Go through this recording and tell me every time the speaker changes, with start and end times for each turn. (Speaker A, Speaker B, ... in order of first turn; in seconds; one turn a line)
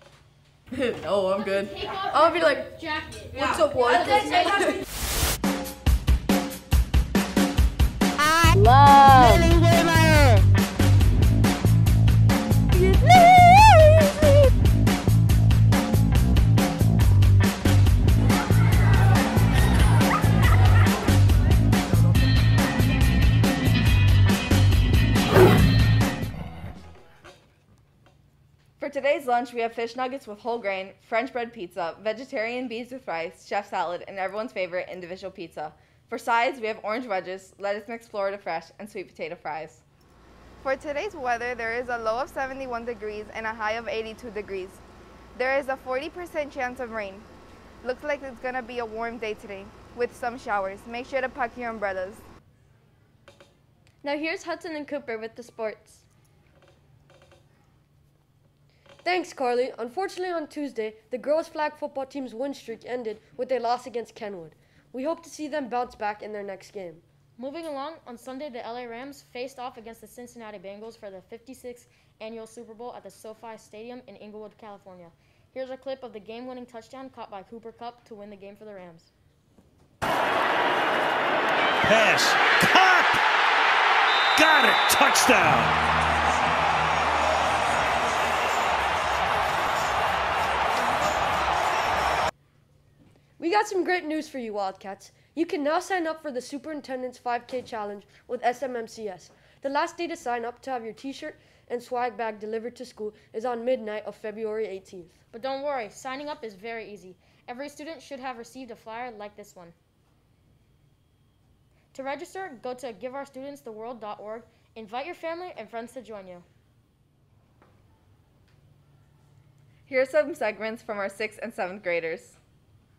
Speaker A: 0.7-1.8
Speaker B: 1.7-3.5
Speaker C: 2.2-2.6
Speaker C: 3.3-4.7
Speaker A: 3.4-3.7
Speaker B: 4.2-4.5
Speaker A: 28.8-39.8
Speaker D: 40.6-44.8
Speaker D: 45.4-47.3
Speaker D: 47.8-52.2
Speaker E: 54.0-56.0
Speaker C: 59.0-67.0
Speaker B: 67.4-79.1
Speaker F: 81.8-83.2
Speaker F: 84.3-85.8
Speaker C: 93.4-105.2
Speaker B: 105.3-109.7
Speaker B: 111.9-116.4
Speaker A: 119.9-122.4